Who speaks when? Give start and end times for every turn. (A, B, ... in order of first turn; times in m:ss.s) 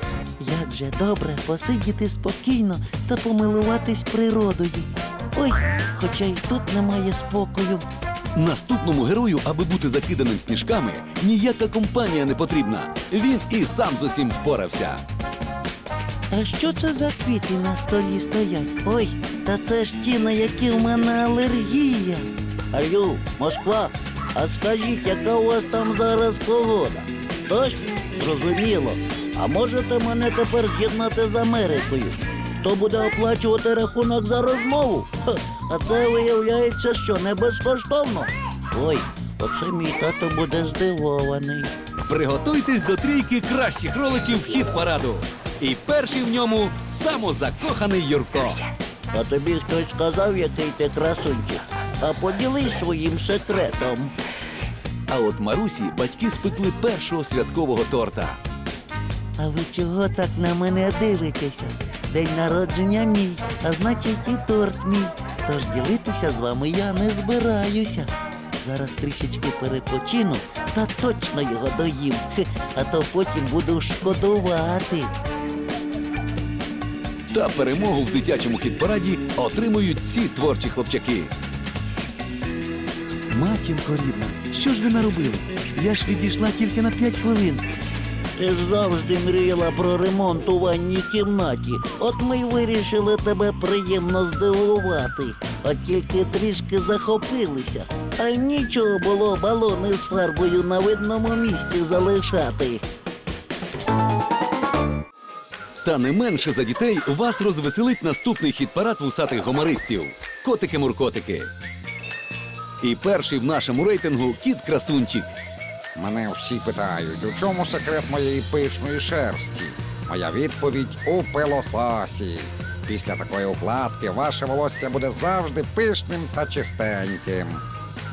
0:00.4-0:07.8 A
0:08.3-0:15.0 B
0:16.3-0:41.7 A
0:42.1-0:48.6 B
0:49.1-0:54.1 A
0:55.1-0:58.4 B
0:59.4-1:15.1 A
1:17.3-1:21.3 B
1:23.3-1:27.6 B
1:28.4-1:42.8 A
1:45.8-1:51.5 B
1:52.8-1:55.3 B
1:56.0-2:07.6 C